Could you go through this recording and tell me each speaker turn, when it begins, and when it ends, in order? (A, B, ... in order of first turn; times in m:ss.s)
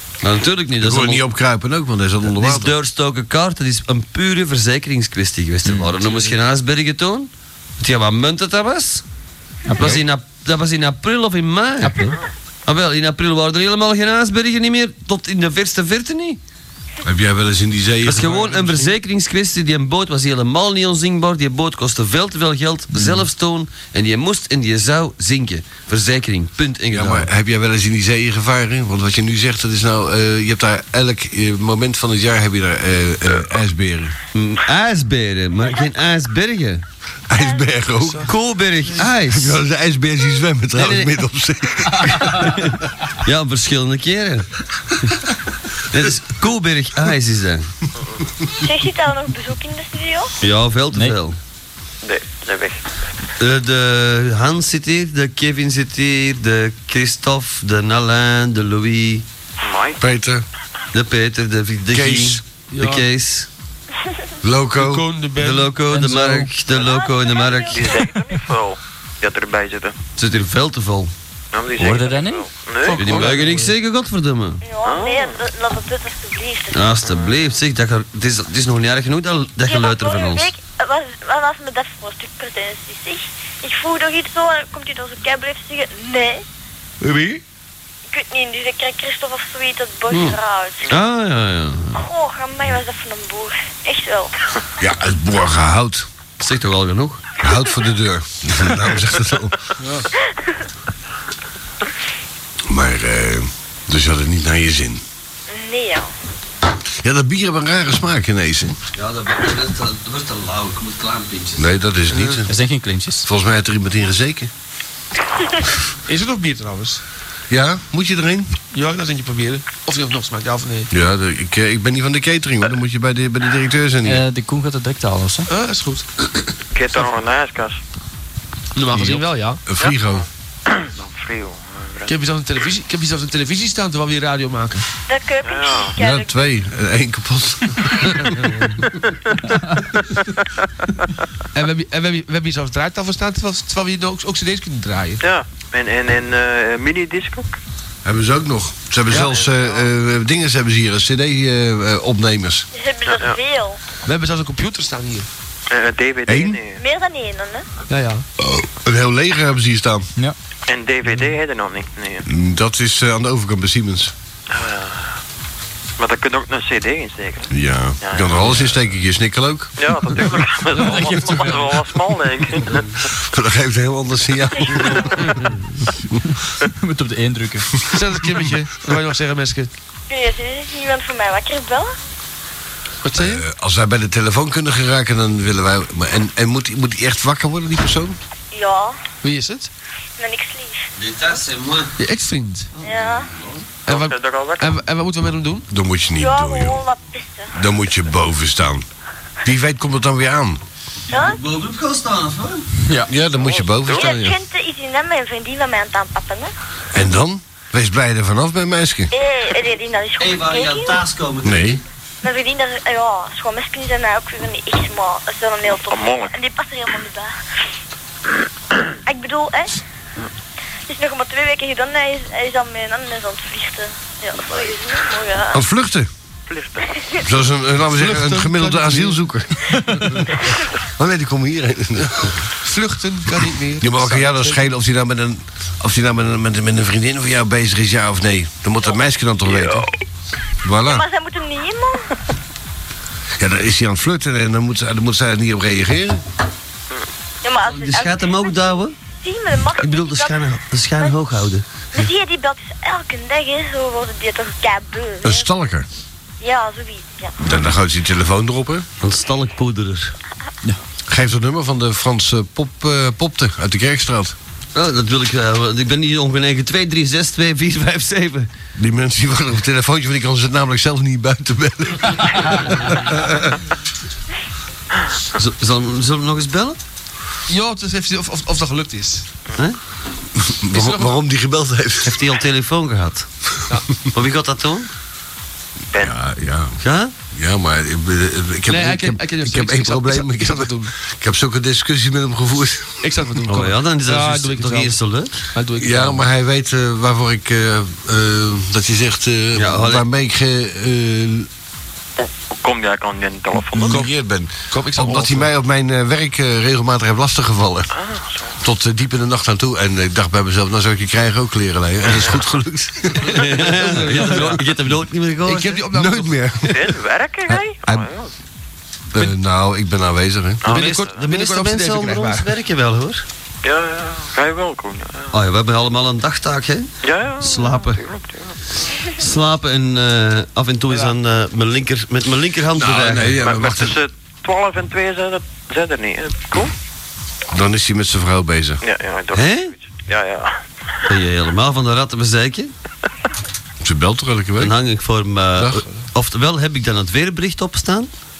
0:00.2-0:01.2 A
0:00.8-0:02.8 B
0:02.3-0:09.0 A
0:06.0-0:06.3 C
0:09.7-0:10.0 D
0:09.8-0:12.1 A
0:11.8-0:12.2 D
0:12.7-0:16.4 A
0:17.0-0:18.6 B
0:18.0-0:27.3 A
0:18.3-0:18.8 C
0:26.9-0:34.2 B
0:34.4-0:36.8 A
0:37.3-0:38.3 B
0:37.4-0:37.8 E
0:38.0-0:38.3 C
0:38.3-0:39.6 A
0:39.2-0:42.4 B
0:40.7-0:41.1 A
0:42.3-0:44.5 A
0:45.9-0:47.7 A
0:48.6-0:50.3 E
0:50.4-0:51.4 A
0:50.9-0:51.2 D
0:52.0-0:52.8 F
0:53.4-0:59.2 A
0:59.6-1:00.0 F
1:00.0-1:00.4 B
1:00.9-1:03.5 A
1:01.9-1:02.4 B
1:02.7-1:03.1 C
1:04.4-1:05.1 B
1:04.8-1:05.9 C
1:05.4-1:08.0 A
1:05.9-1:06.5 D
1:06.8-1:08.3 E
1:07.7-1:10.0 F
1:10.2-1:11.1 A
1:11.5-1:13.3 F
1:11.8-1:12.5 D
1:12.8-1:13.7 C
1:13.0-1:14.6 A
1:14.6-1:16.9 E
1:14.8-1:15.4 F
1:16.7-1:20.5 A
1:17.0-1:17.4 F
1:19.6-1:26.4 E
1:28.1-1:30.9 E
1:30.1-1:30.4 A
1:30.9-1:32.0 A
1:31.9-1:34.3 E
1:34.8-1:36.1 B
1:36.4-1:37.2 A
1:37.4-1:39.6 B
1:39.8-1:40.1 C
1:42.7-1:45.0 B
1:45.5-1:46.1 E
1:47.0-1:48.8 B
1:49.0-1:51.7 A
1:51.6-1:52.5 B
1:52.4-1:53.2 D
1:53.2-1:54.5 B
1:56.1-1:57.0 C
1:57.5-1:58.5 B
1:58.7-2:00.9 C
2:00.9-2:04.2 B
2:04.0-2:05.5 D
2:05.5-2:06.0 C
2:06.7-2:07.8 F
2:08.8-2:09.6 C
2:08.9-2:10.2 B
2:09.8-2:12.1 F
2:12.1-2:14.8 C
2:15.1-2:16.4 E
2:15.4-2:16.0 F
2:16.0-2:18.3 B
2:18.2-2:18.7 C
2:21.6-2:25.2 C
2:25.2-2:27.5 F
2:28.0-2:32.7 B
2:29.1-2:29.4 C
2:29.1-2:29.9 F
2:32.7-2:33.8 E
2:33.1-2:33.4 F
2:34.1-2:35.3 C
2:35.7-2:36.8 F
2:36.3-2:36.6 B
2:36.8-2:37.7 E
2:37.9-2:38.2 C
2:38.4-2:40.1 B
2:40.7-2:42.3 F
2:42.3-2:44.1 B
2:44.5-2:45.1 F
2:46.0-2:47.5 F
2:47.5-2:49.7 B
2:48.0-2:48.8 F
2:49.8-2:52.9 F
2:50.8-2:51.7 D
2:50.8-2:51.6 C
2:53.2-2:55.2 B
2:55.2-2:55.5 C
2:56.6-2:57.7 D
2:57.9-2:59.7 C
3:00.1-3:01.9 E
3:03.0-3:03.4 C
3:03.2-3:08.2 B
3:08.5-3:09.0 E
3:09.2-3:09.7 C
3:10.2-3:10.8 E
3:11.0-3:12.0 A
3:12.0-3:12.7 C
3:12.8-3:13.6 A
3:12.8-3:13.3 E
3:13.9-3:14.8 F
3:13.9-3:15.7 C
3:15.7-3:16.9 B
3:16.2-3:17.6 E
3:17.5-3:18.8 B
3:19.4-3:20.6 B
3:21.1-3:21.4 E
3:21.1-3:22.7 A
3:23.1-3:24.2 B
3:23.4-3:24.2 F
3:23.9-3:26.5 E
3:24.0-3:24.3 C
3:26.9-3:29.1 B
3:29.1-3:31.0 E
3:30.2-3:31.8 A
3:31.4-3:31.8 B
3:32.2-3:37.3 E
3:35.8-3:36.3 F
3:39.1-3:39.8 E
3:40.9-3:45.6 E
3:45.5-3:46.1 B
3:46.5-3:47.0 F
3:47.2-3:52.4 B
3:47.9-3:49.2 C
3:52.6-3:54.6 C
3:53.8-3:59.9 B
3:59.4-3:59.8 F
4:00.6-4:01.0 B
4:00.8-4:02.1 E
4:03.4-4:06.2 B
4:07.4-4:11.2 E
4:07.7-4:09.0 A
4:09.8-4:11.6 A
4:11.9-4:15.5 E
4:15.2-4:15.9 B
4:16.4-4:17.4 E
4:17.4-4:18.9 B
4:19.0-4:20.1 A
4:21.1-4:24.4 B
4:24.7-4:28.5 A
4:28.8-4:33.5 B
4:35.4-4:36.8 A
4:37.5-4:39.3 C
4:40.4-4:42.2 B
4:40.7-4:41.1 C
4:42.0-4:43.3 A
4:44.1-4:44.9 A
4:46.0-4:46.8 B
4:46.8-4:47.1 A
4:47.3-4:53.0 B
4:48.7-4:50.9 C
4:53.0-4:55.0 C
4:53.5-4:55.4 A
4:55.6-4:56.2 C
4:55.8-5:01.5 B
4:59.6-5:00.0 A
5:02.2-5:04.0 F
5:03.7-5:07.9 B
5:03.8-5:04.1 C
5:04.7-5:05.5 C
5:07.9-5:08.6 F
5:08.6-5:13.3 B
5:13.2-5:15.8 A
5:13.4-5:14.7 C
5:15.4-5:16.4 C
5:15.9-5:17.0 B
5:16.6-5:18.3 F
5:17.5-5:18.1 B
5:19.1-5:20.6 B
5:20.6-5:21.1 F
5:20.7-5:22.5 C
5:20.7-5:23.2 A
5:23.6-5:25.3 F
5:25.3-5:28.0 A
5:27.0-5:28.6 F
5:29.1-5:33.4 A
5:32.8-5:34.0 B
5:33.4-5:36.7 F
5:37.5-5:38.8 B
5:38.8-5:40.6 F
5:39.3-5:39.7 A
5:41.1-5:42.7 A
5:43.8-5:44.8 B
5:44.6-5:48.1 A
5:45.6-5:45.8 B